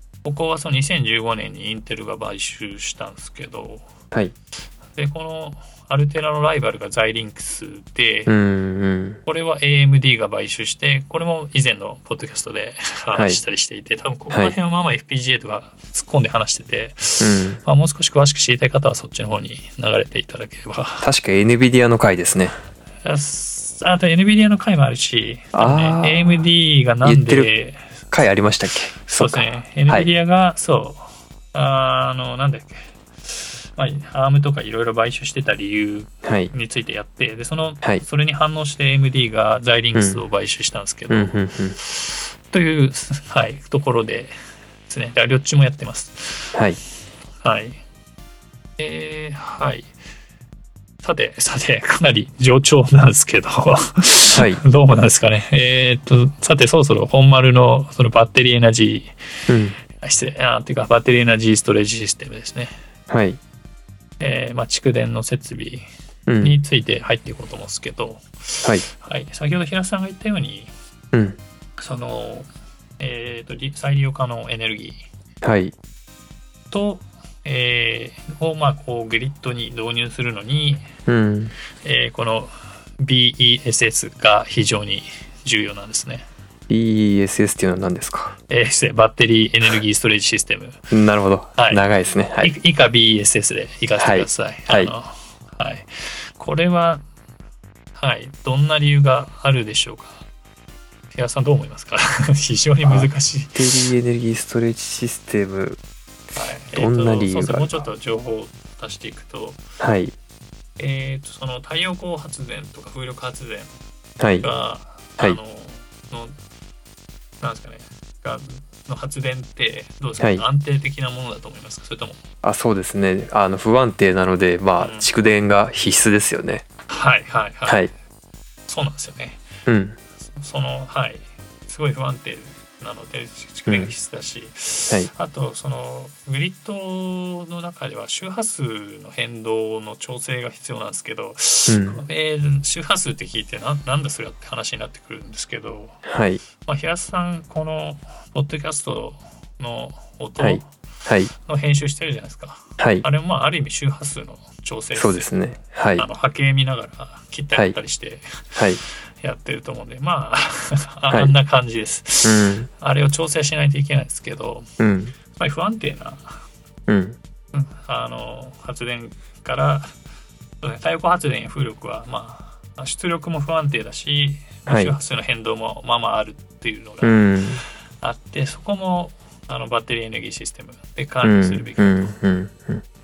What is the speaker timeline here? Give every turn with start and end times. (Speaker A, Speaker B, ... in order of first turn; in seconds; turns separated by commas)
Speaker A: 0.2-3.9, Speaker A: 4.9-8.3, Speaker B: 8.3-9.2, Speaker A: 9.2-21.1, Speaker B: 13.1-13.4, Speaker B: 17.2-17.6, Speaker B: 21.0-22.5, Speaker A: 23.0-27.9, Speaker B: 25.5-26.4, Speaker B: 27.0-27.5, Speaker B: 28.1-30.1, Speaker A: 29.0-44.3, Speaker B: 36.2-36.5, Speaker B: 39.9-40.2, Speaker B: 41.1-41.8, Speaker A: 44.9-46.6, Speaker B: 46.5-46.8, Speaker A: 47.4-47.8, Speaker A: 48.8-49.9, Speaker A: 51.0-59.1, Speaker B: 54.3-54.6, Speaker B: 59.5-59.7, Speaker A: 60.0-62.7, Speaker B: 63.1-63.4, Speaker A: 64.2-65.8, Speaker B: 66.3-66.6, Speaker A: 66.4-70.7, Speaker B: 71.1-71.4, Speaker A: 71.8-72.5, Speaker A: 73.0-75.0, Speaker B: 75.4-75.7, Speaker A: 76.7-80.9, Speaker B: 81.0-81.5, Speaker A: 81.8-86.3, Speaker B: 86.7-88.3, Speaker A: 88.5-90.8, Speaker B: 90.9-92.5, Speaker A: 91.5-91.8, Speaker A: 92.4-97.0, Speaker B: 94.0-94.9, Speaker A: 98.0-100.2, Speaker A: 101.1-103.9, Speaker B: 102.8-105.8, Speaker A: 106.3-109.6, Speaker B: 106.7-107.8, Speaker B: 109.8-110.1, Speaker A: 110.8-113.7, Speaker B: 114.2-114.5, Speaker A: 114.4-116.3, Speaker A: 117.4-122.2, Speaker B: 122.4-126.6, Speaker A: 124.8-125.1, Speaker A: 126.9-127.9, Speaker A: 128.7-129.4, Speaker B: 129.7-130.0, Speaker A: 130.4-146.0, Speaker B: 141.7-142.0, Speaker B: 146.0-146.4, Speaker A: 146.6-150.7, Speaker B: 150.4-151.3, Speaker A: 151.3-155.3, Speaker B: 152.8-153.0, Speaker B: 154.9-156.1, Speaker A: 155.9-164.7, Speaker B: 162.2-162.7, Speaker B: 164.8-165.1, Speaker A: 165.3-166.3, Speaker B: 166.9-167.2, Speaker A: 167.5-169.9, Speaker A: 170.6-177.2, Speaker B: 174.7-174.9, Speaker B: 177.0-177.6, Speaker A: 178.0-182.2, Speaker B: 181.2-182.8